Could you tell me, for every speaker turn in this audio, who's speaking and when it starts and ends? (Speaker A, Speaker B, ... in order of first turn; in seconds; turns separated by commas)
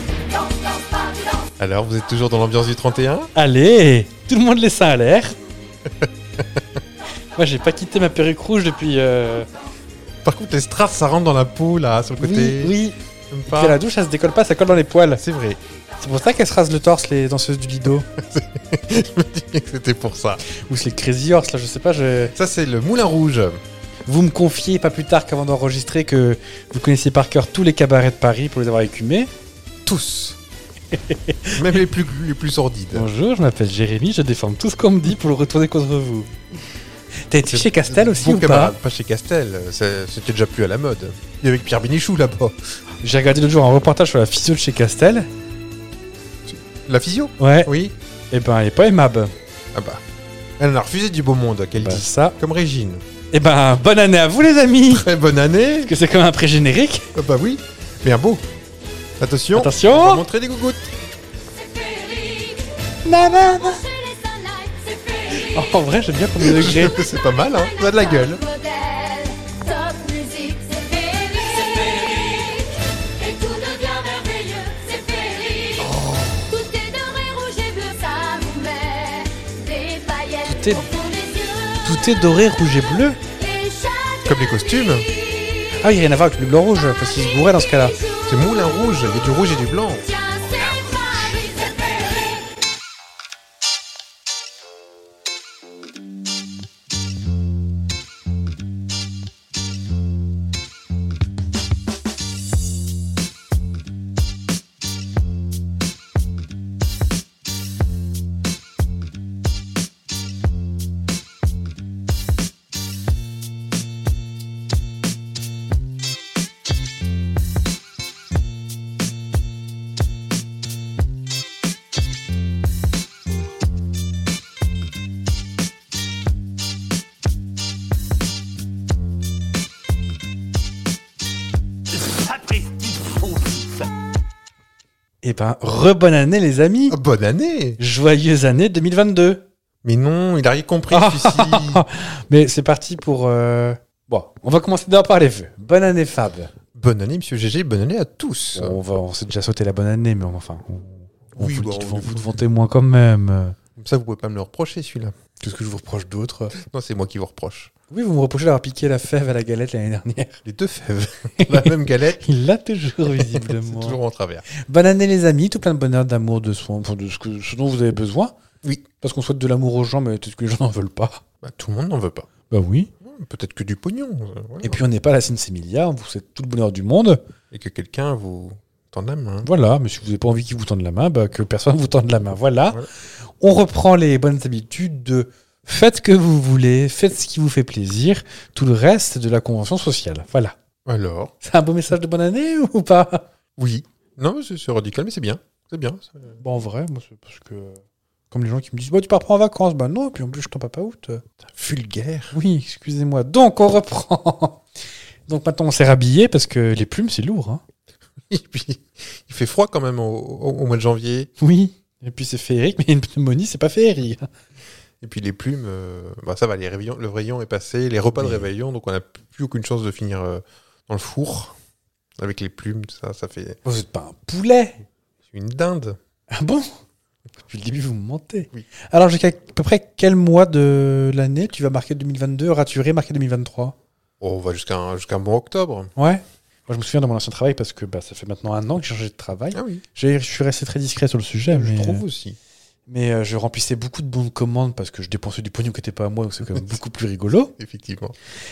Speaker A: 0.4-1.3, Speaker B: 1.6-3.3, Speaker C: 3.3-5.3, Speaker B: 5.9-6.8, Speaker C: 7.3-9.5, Speaker B: 10.2-12.7, Speaker C: 12.2-15.2, Speaker B: 13.3-13.8, Speaker B: 15.2-15.6, Speaker C: 16.0-18.1, Speaker B: 18.1-20.4, Speaker C: 20.4-22.3, Speaker B: 22.3-23.6, Speaker C: 24.1-29.3, Speaker B: 29.8-30.4, Speaker C: 30.9-31.6, Speaker B: 31.5-33.1, Speaker C: 32.9-36.3, Speaker C: 37.3-38.7, Speaker B: 37.5-42.5, Speaker C: 43.0-45.3, Speaker B: 46.5-47.9, Speaker C: 47.4-47.7, Speaker C: 48.3-49.3, Speaker B: 49.7-50.0, Speaker B: 50.6-53.0, Speaker C: 51.8-52.4, Speaker C: 53.3-55.1, Speaker B: 54.9-55.9, Speaker C: 55.8-57.1, Speaker B: 57.1-58.4, Speaker B: 59.2-60.9, Speaker C: 59.5-60.2, Speaker A: 61.5-65.6, Speaker C: 63.0-63.8, Speaker C: 65.3-67.0, Speaker B: 66.4-68.4, Speaker A: 67.4-75.9, Speaker A: 76.4-82.0, Speaker C: 80.5-80.8, Speaker C: 81.8-83.2, Speaker A: 83.3-85.7, Speaker B: 84.2-85.1, Speaker C: 85.8-88.0, Speaker A: 88.0-88.9, Speaker B: 88.2-90.0, Speaker A: 90.0-92.4, Speaker C: 135.2-137.0, Speaker B: 136.9-137.8, Speaker C: 137.8-139.4, Speaker B: 139.8-141.8, Speaker C: 140.9-146.5, Speaker B: 146.7-148.8, Speaker C: 148.5-153.6, Speaker B: 151.3-152.4, Speaker B: 153.8-155.2, Speaker C: 155.4-156.6, Speaker B: 156.5-157.7, Speaker C: 157.9-160.4, Speaker B: 160.4-162.2, Speaker C: 161.4-164.0, Speaker B: 163.0-164.4, Speaker C: 164.5-168.4, Speaker C: 169.0-171.2, Speaker B: 171.4-172.3, Speaker C: 172.5-172.9, Speaker B: 173.0-174.8, Speaker C: 174.6-177.2, Speaker B: 177.5-179.5, Speaker C: 179.4-190.5, Speaker B: 190.8-191.3, Speaker C: 191.4-193.2, Speaker B: 193.6-196.3, Speaker C: 196.4-197.8, Speaker C: 198.3-201.2, Speaker B: 201.4-202.3, Speaker C: 202.3-204.6, Speaker C: 205.3-207.6, Speaker B: 208.3-211.3, Speaker C: 211.4-214.3, Speaker B: 215.0-221.6, Speaker C: 218.2-218.4, Speaker B: 222.2-223.6, Speaker C: 223.6-224.8, Speaker B: 225.3-226.0, Speaker C: 226.3-226.7, Speaker C: 227.5-233.8, Speaker B: 234.2-235.9, Speaker C: 235.9-242.0, Speaker B: 239.5-239.8, Speaker B: 241.5-242.4, Speaker C: 242.9-247.5, Speaker B: 247.6-248.2